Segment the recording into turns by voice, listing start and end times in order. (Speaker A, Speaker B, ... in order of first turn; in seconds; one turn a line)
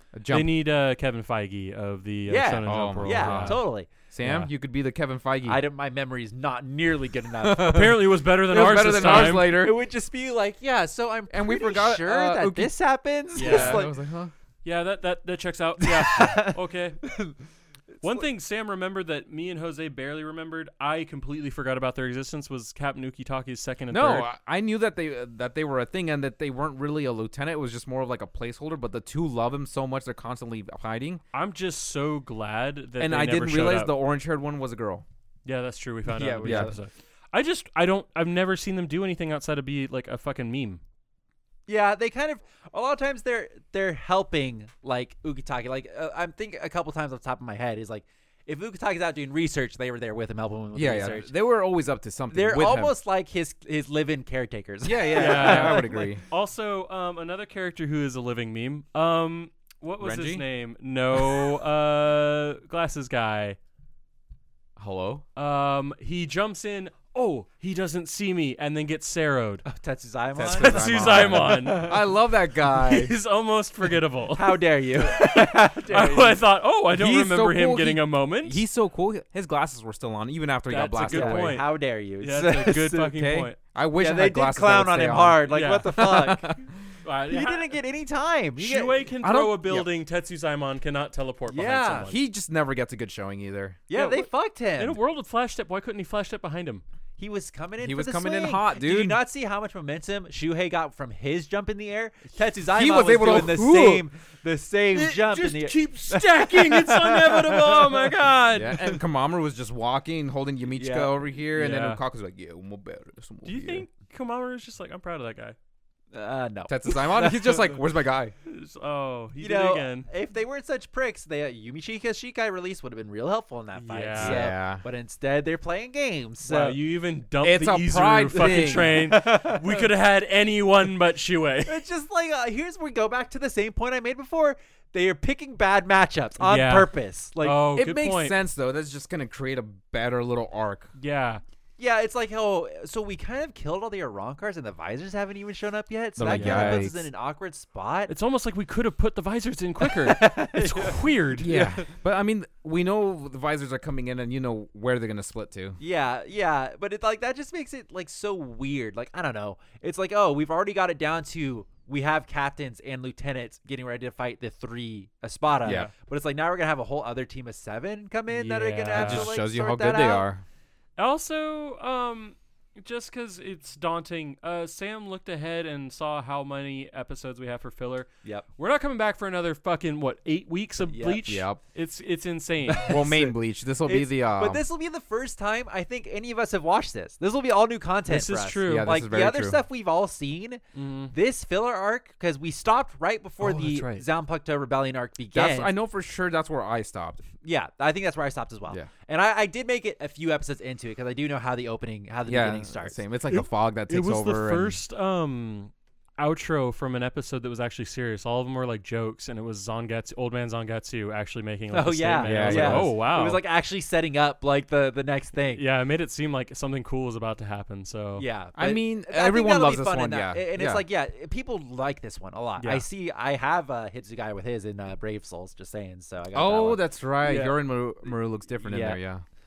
Speaker A: 0.1-0.6
Speaker B: 0.3-3.6
Speaker C: 2.3-3.9
Speaker A: 2.6-5.6
Speaker B: 4.2-4.5
Speaker C: 5.5-7.9
Speaker A: 7.4-9.8
Speaker B: 7.6-9.7
Speaker C: 9.1-13.9
Speaker A: 11.3-12.7
Speaker A: 13.3-14.3
Speaker B: 13.4-13.8
Speaker B: 14.6-17.1
Speaker C: 15.8-17.3
Speaker B: 18.0-24.3
Speaker A: 23.9-31.2
Speaker B: 31.3-33.9
Speaker A: 33.0-35.0
Speaker B: 35.5-40.8
Speaker A: 36.1-36.7
Speaker C: 41.7-51.3
Speaker A: 50.7-53.0
Speaker C: 52.3-56.1
Speaker A: 54.8-56.2
Speaker B: 55.1-63.6
Speaker A: 60.0-60.5
Speaker A: 64.8-65.2
Speaker B: 65.4-69.7
Speaker C: 69.7-72.0
Speaker A: 70.4-73.2
Speaker B: 70.5-72.0
Speaker B: 72.7-78.7
Speaker C: 74.3-76.4
Speaker A: 76.9-81.6
Speaker B: 80.7-81.7
Speaker C: 81.1-83.1
Speaker B: 82.2-83.6
Speaker A: 83.1-85.5
Speaker C: 84.0-86.6
Speaker B: 85.5-86.3
Speaker A: 86.0-86.7
Speaker B: 87.0-87.8
Speaker C: 87.3-89.0
Speaker B: 88.6-92.2
Speaker A: 89.2-89.9
Speaker C: 91.5-92.1
Speaker A: 92.0-93.8
Speaker C: 93.9-95.0
Speaker B: 93.9-96.8
Speaker C: 97.2-108.2
Speaker A: 97.8-99.2
Speaker A: 102.7-104.0
Speaker B: 104.9-108.9
Speaker A: 108.5-113.9
Speaker C: 110.7-111.1
Speaker B: 111.6-112.0
Speaker B: 113.5-115.6
Speaker C: 116.1-117.8
Speaker A: 116.7-118.3
Speaker B: 118.5-120.1
Speaker C: 119.4-126.8
Speaker B: 123.8-124.5
Speaker A: 124.2-124.8
Speaker B: 126.5-131.8
Speaker A: 127.4-129.0
Speaker C: 128.3-129.9
Speaker C: 131.7-137.6
Speaker B: 136.4-138.4
Speaker A: 137.8-140.9
Speaker B: 141.0-141.4
Speaker C: 141.8-148.1
Speaker A: 146.2-147.1
Speaker B: 146.3-146.9
Speaker B: 148.1-151.5
Speaker C: 149.8-151.9
Speaker A: 151.4-155.8
Speaker C: 155.8-170.3
Speaker A: 165.6-165.9
Speaker B: 165.7-165.9
Speaker B: 168.3-169.4
Speaker A: 168.9-170.4
Speaker B: 171.0-182.9
Speaker C: 180.9-181.2
Speaker A: 181.2-181.6
Speaker A: 182.7-184.6
Speaker C: 182.7-183.3
Speaker C: 183.9-195.7
Speaker B: 188.1-188.9
Speaker A: 188.7-189.6
Speaker B: 190.8-191.1
Speaker B: 193.4-194.0
Speaker A: 195.3-197.2
Speaker C: 197.4-203.0
Speaker A: 202.3-204.8
Speaker B: 203.3-213.4
Speaker C: 211.7-215.6
Speaker A: 212.2-212.9
Speaker B: 215.5-218.3
Speaker C: 218.2-227.6
Speaker A: 218.6-220.8
Speaker B: 222.6-222.8
Speaker A: 226.3-229.2
Speaker C: 228.6-229.0